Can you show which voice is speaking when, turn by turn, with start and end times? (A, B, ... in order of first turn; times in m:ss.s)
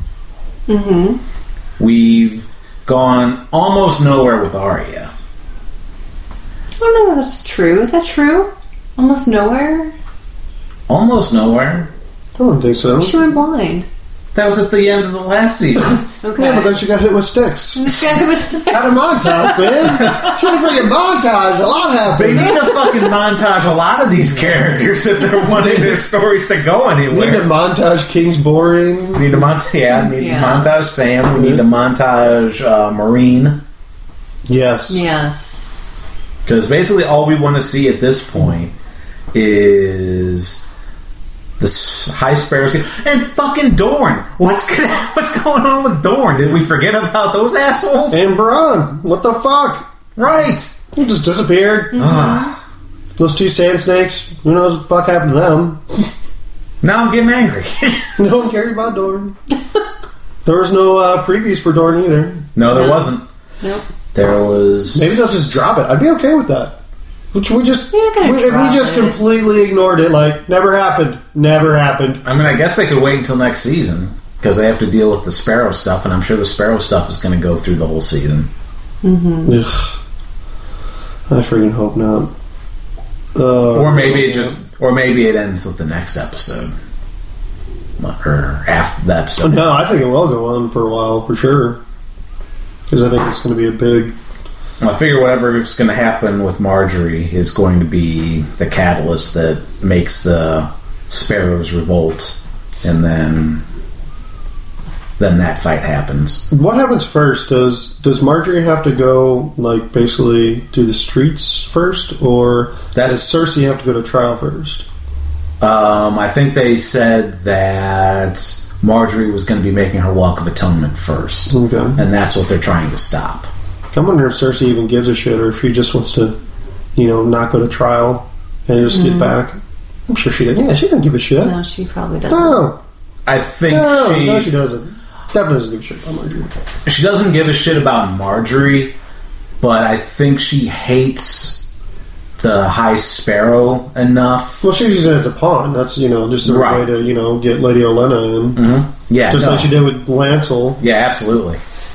0:00.7-0:01.2 A
0:01.8-0:05.1 B
0:06.8-0:09.9 A
0:10.9-0:11.9 B
0:12.4-0:13.2 C
0:13.0-0:13.9 A
0:14.4-0:16.0 B
0:16.2-0:16.8 A
0:16.4-0:18.0 C
0:17.8-0:20.4 A
0:18.7-0:22.6 C
0:22.1-0:27.5 B
0:25.4-0:26.0 C
0:27.1-0:29.4 C
0:29.1-0:33.6 B
0:30.2-0:30.7 A
0:31.4-0:31.6 C
0:34.5-0:35.0 C
0:34.9-0:35.7 A
0:36.5-0:38.7 B
0:39.3-0:40.7 B
0:41.6-0:48.2 B
0:48.1-0:49.8 C
0:50.2-0:50.8 B
0:50.9-0:52.2 C
0:52.0-0:52.6 B
0:53.2-0:56.1 C
0:56.8-0:58.1 B
0:58.2-0:59.4 C
1:00.4-1:02.5 C
1:02.6-1:03.2 B
1:02.7-1:03.1 A
1:03.6-1:03.9 A
1:04.1-1:05.2 B
1:04.9-1:06.8 C
1:07.3-1:12.2 C
1:07.9-1:09.2 A
1:12.2-1:18.5 B
1:19.0-1:19.6 A
1:19.4-1:20.0 C
1:21.3-1:22.3 C
1:23.4-1:24.6 C
1:23.7-1:26.7 B
1:28.0-1:29.7 B
1:29.4-1:31.8 C
1:32.9-1:34.2 C
1:34.8-1:43.6 B
1:45.2-1:46.4 B
1:46.5-1:54.9 C
1:52.9-1:53.4 B
1:55.6-2:03.5 B
2:01.5-2:02.0 C
2:03.9-2:06.4 C
2:07.0-2:09.6 C
2:08.9-2:09.3 A
2:10.1-2:11.6 C
2:11.4-2:12.7 A
2:12.3-2:12.8 C
2:13.3-2:14.5 B
2:13.7-2:16.5 C
2:16.9-2:19.0 B
2:19.6-2:21.7 B
2:22.4-2:24.6 B
2:24.6-2:28.6 C
2:26.4-2:26.9 B
2:28.6-2:29.7 B
2:29.3-2:30.8 C
2:30.8-2:31.6 B